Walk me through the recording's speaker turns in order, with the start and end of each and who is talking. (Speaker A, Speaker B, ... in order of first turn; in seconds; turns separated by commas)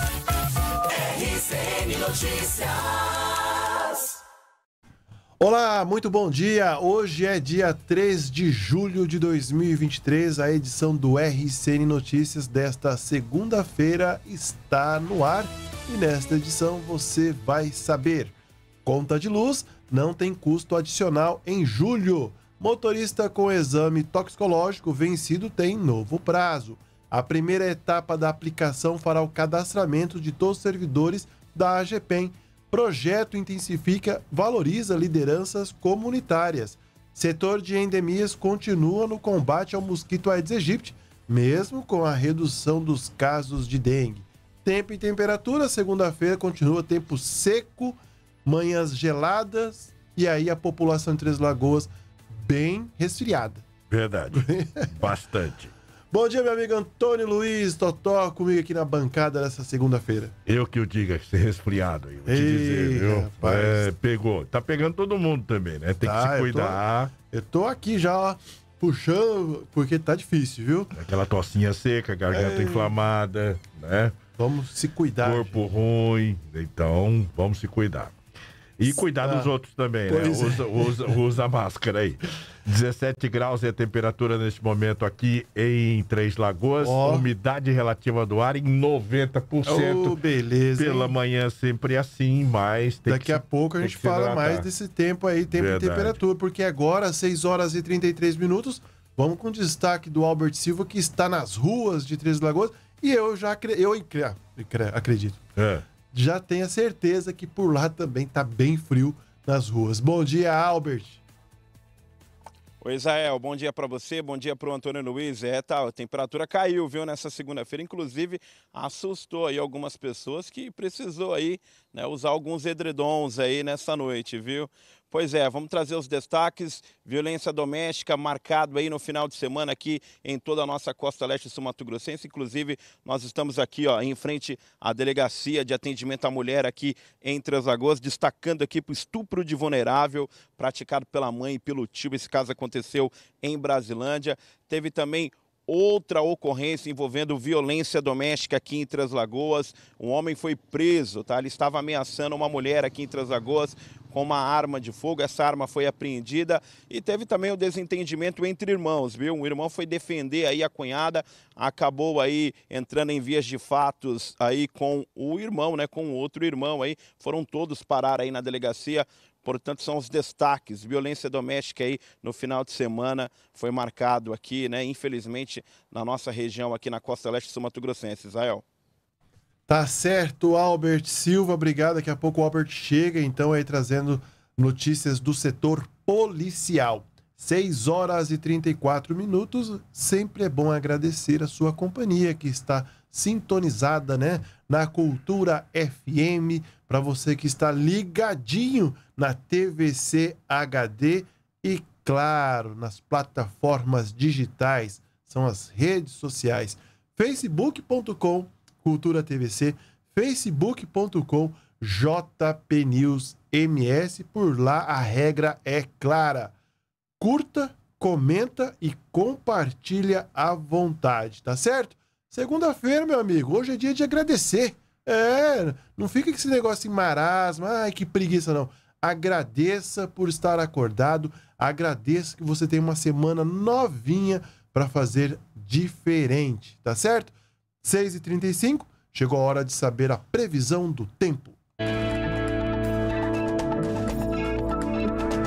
Speaker A: 0.9-4.2, Speaker B: 5.4-18.3, Speaker B: 18.8-53.6, Speaker C: 53.9-55.7, Speaker B: 54.3-54.9, Speaker B: 56.1-60.3, Speaker C: 60.5-67.1, Speaker B: 62.3-63.9, Speaker B: 66.0-66.8, Speaker B: 67.3-70.9, Speaker C: 70.9-74.2, Speaker B: 72.3-72.9, Speaker B: 74.4-75.6, Speaker C: 75.2-78.1, Speaker C: 78.8-90.2, Speaker B: 78.9-79.5, Speaker B: 80.1-81.0, Speaker B: 86.8-87.3, Speaker B: 89.7-91.1, Speaker C: 90.8-94.7, Speaker B: 93.0-105.4, Speaker C: 95.5-96.2, Speaker C: 105.5-105.8, Speaker B: 106.1-111.2, Speaker D: 112.8-178.6, Speaker B: 179.7-216.5, Speaker B: 217.2-241.6